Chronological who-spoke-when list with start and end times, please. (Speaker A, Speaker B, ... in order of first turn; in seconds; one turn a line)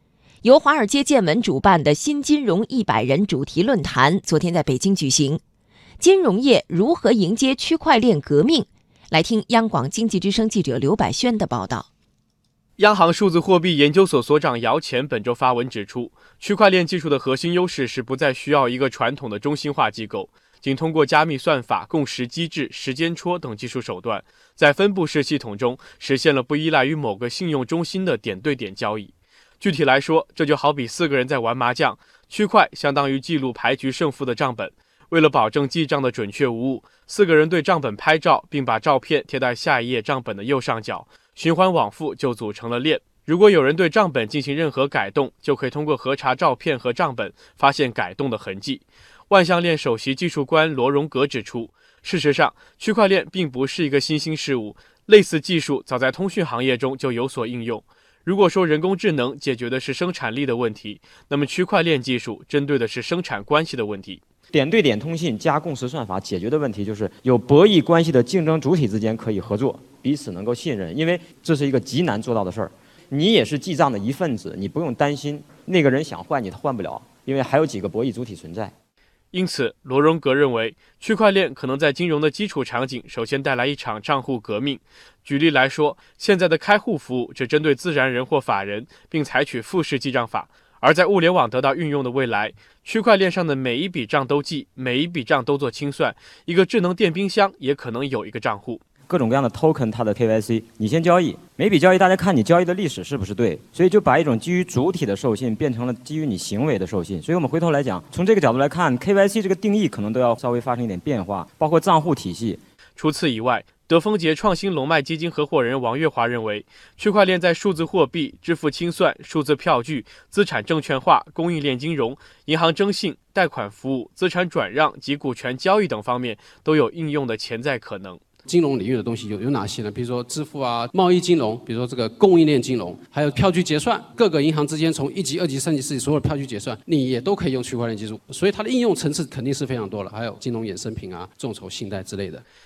Speaker A: 0.4-5.4
Speaker A: 6.0-11.9
Speaker B: 12.8-64.2
Speaker C: 64.5-78.7
Speaker B: 79.3-98.8
Speaker C: 99.1-112.6
Speaker B: 113.0-128.2
Speaker D: 128.5-142.4